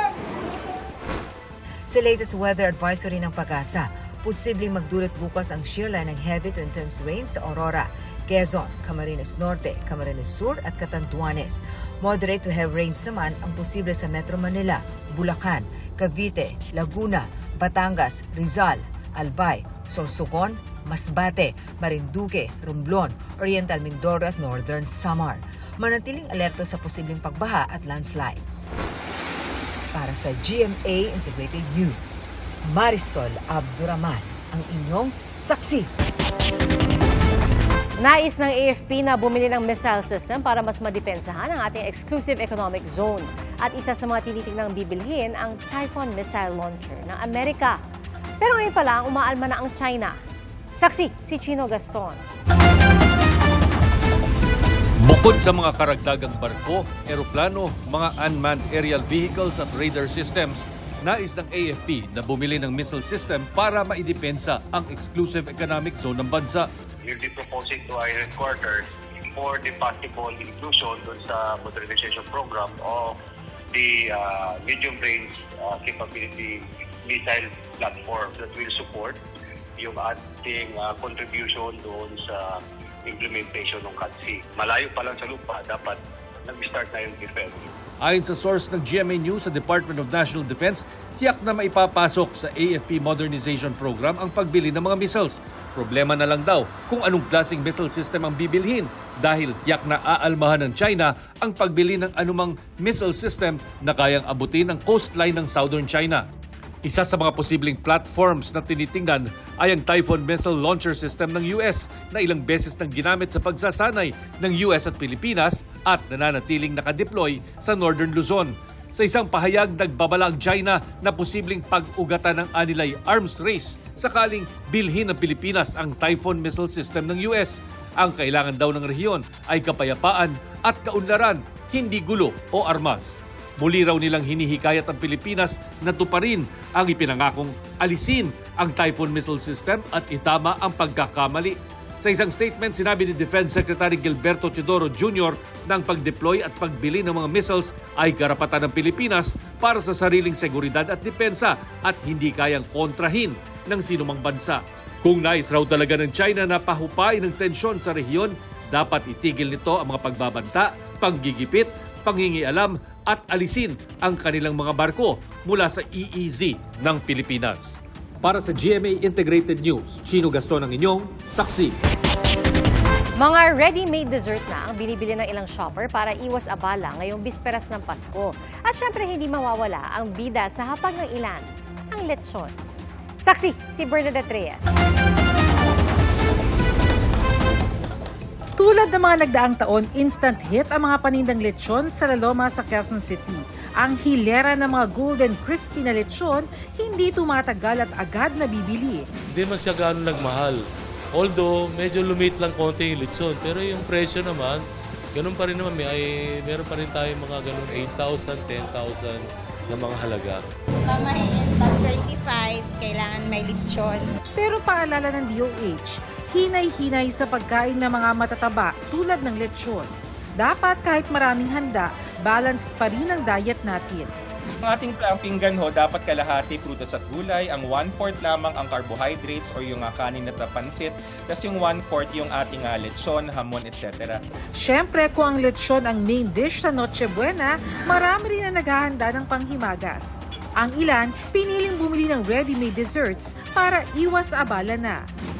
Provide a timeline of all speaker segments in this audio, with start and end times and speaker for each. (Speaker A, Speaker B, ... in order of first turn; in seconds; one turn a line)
Speaker A: 1.9-28.7
Speaker A: 29.9-35.9
Speaker B: 38.0-47.8
Speaker B: 48.4-50.2
Speaker B: 50.7-52.2
Speaker C: 55.0-66.7
Speaker D: 67.1-68.8
Speaker D: 69.3-73.2
Speaker D: 73.7-79.2
Speaker D: 79.8-87.7
Speaker C: 88.0-106.2
Speaker C: 106.8-171.7
Speaker B: 173.2-182.5
Speaker B: 183.2-184.8
Speaker E: 188.6-199.1
Speaker F: 199.3-200.6
Speaker F: 201.2-204.6
Speaker F: 205.1-210.4
Speaker G: 210.9-214.1
Speaker E: 214.3-224.1
Speaker H: 224.7-234.1
Speaker E: 234.6-245.0